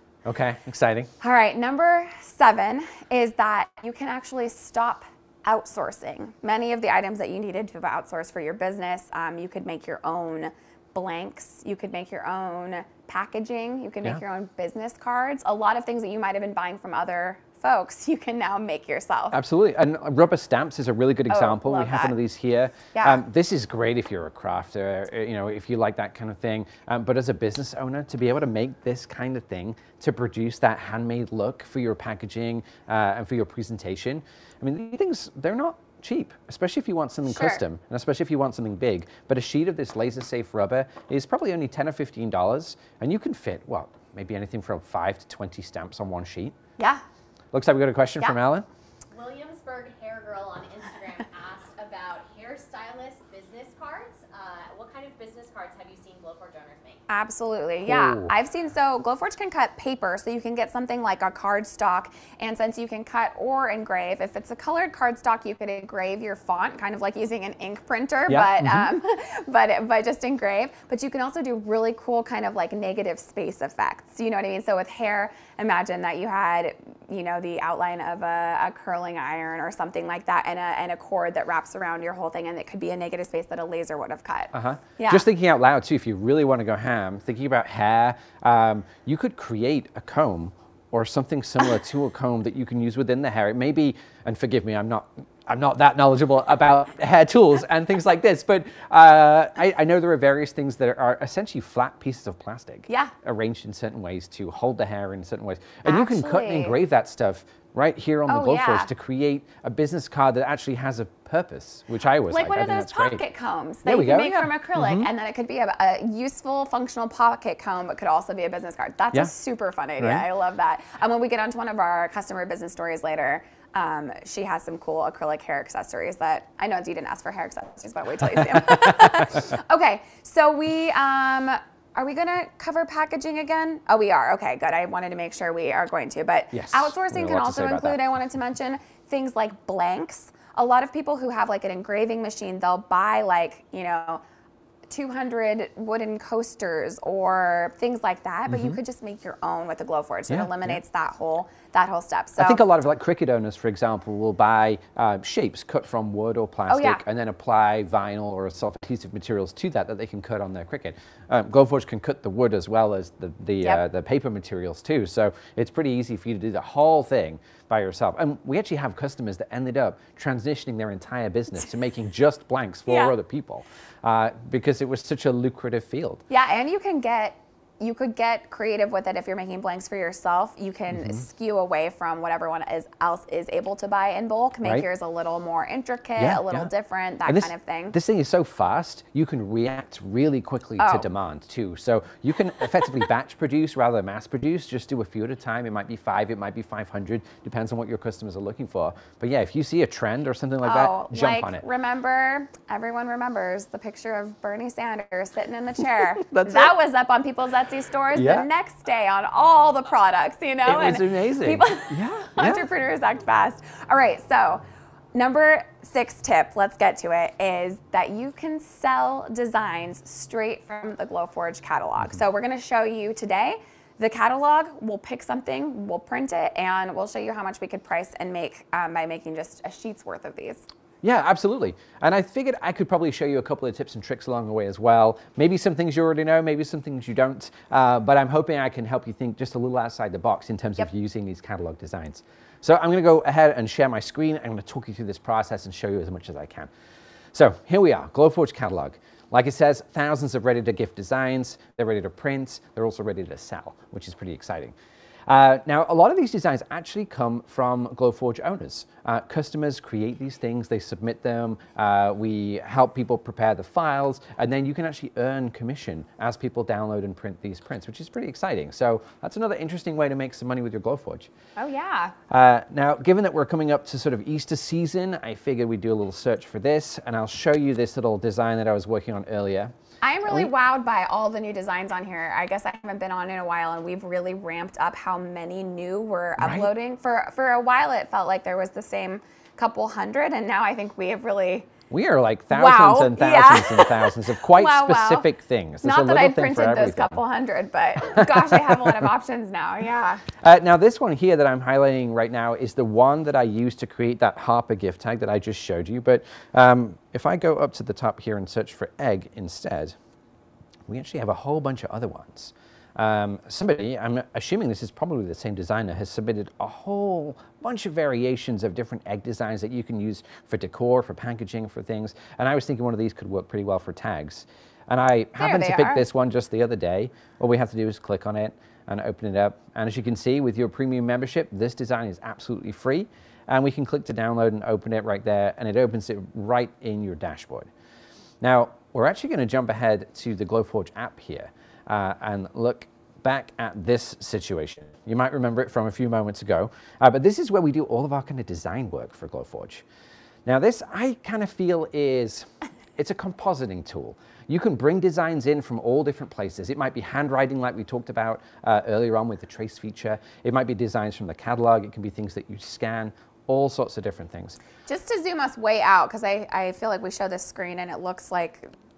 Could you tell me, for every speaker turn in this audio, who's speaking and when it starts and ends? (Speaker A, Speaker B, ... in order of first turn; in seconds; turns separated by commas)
Speaker A: 0.2-1.1, Speaker B: 1.2-19.4, Speaker A: 19.3-46.5, Speaker B: 21.3-22.2, Speaker B: 22.9-23.2, Speaker B: 37.3-37.6, Speaker A: 47.5-48.7, Speaker C: 49.1-57.0, Speaker B: 57.1-85.2, Speaker A: 57.9-58.3, Speaker A: 68.3-68.9, Speaker A: 84.5-113.2, Speaker B: 105.8-106.8, Speaker B: 108.3-108.9, Speaker B: 112.3-144.2, Speaker A: 113.8-115.1, Speaker A: 120.0-120.2, Speaker A: 128.3-129.2, Speaker A: 136.5-138.0, Speaker B: 144.9-152.6, Speaker A: 148.5-148.8, Speaker A: 150.3-150.8, Speaker A: 152.4-176.2, Speaker B: 156.7-157.0, Speaker B: 172.9-173.1, Speaker B: 176.3-188.0, Speaker A: 180.9-181.2, Speaker A: 186.2-186.7, Speaker A: 187.3-201.6, Speaker B: 190.8-191.1, Speaker B: 200.6-214.6, Speaker A: 206.2-206.7, Speaker A: 208.1-208.5, Speaker A: 210.6-212.7, Speaker B: 215.1-230.7, Speaker A: 231.0-246.7, Speaker A: 247.3-254.7, Speaker A: 255.3-271.3, Speaker B: 271.6-272.1, Speaker A: 272.3-279.7, Speaker B: 280.0-291.7, Speaker A: 286.4-286.7, Speaker A: 291.9-297.2, Speaker B: 292.5-295.3, Speaker B: 295.8-300.2, Speaker A: 298.1-298.9, Speaker A: 300.4-309.9, Speaker A: 310.9-337.7, Speaker B: 325.4-326.0, Speaker A: 338.4-349.9, Speaker A: 350.4-364.6, Speaker B: 364.9-368.7